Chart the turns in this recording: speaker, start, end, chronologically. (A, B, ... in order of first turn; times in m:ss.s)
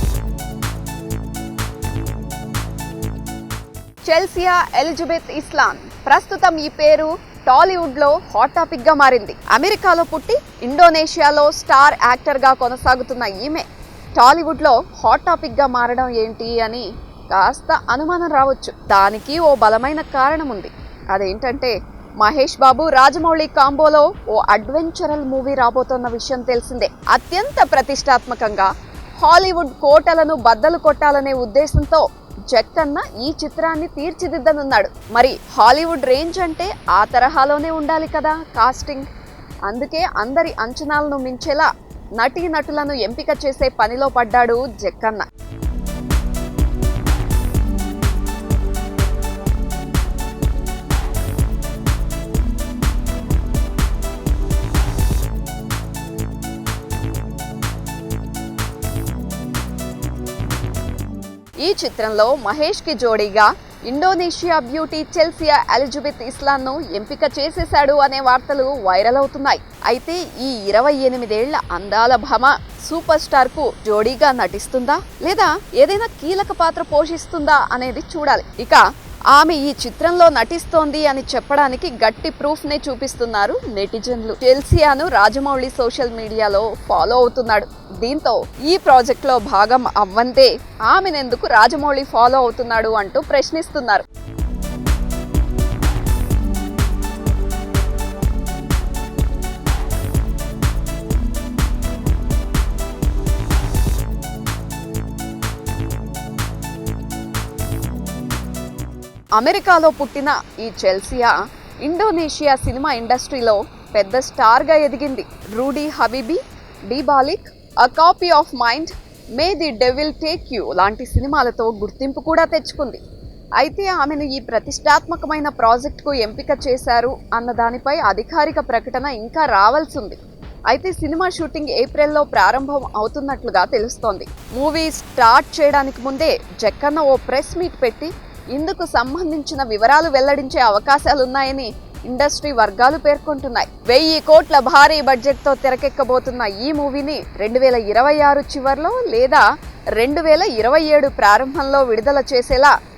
0:04.0-0:13.6 A
0:14.2-0:28.7 A
0:29.2-0:39.1 A
0:39.7-0:45.3 A
1:01.6-1:18.8 A
1:19.3-1:34.0 A
1:49.4-1:51.3 A
1:51.8-2:03.0 A
2:03.6-2:10.2 A
2:10.7-2:29.4 A
2:30.0-2:32.7 A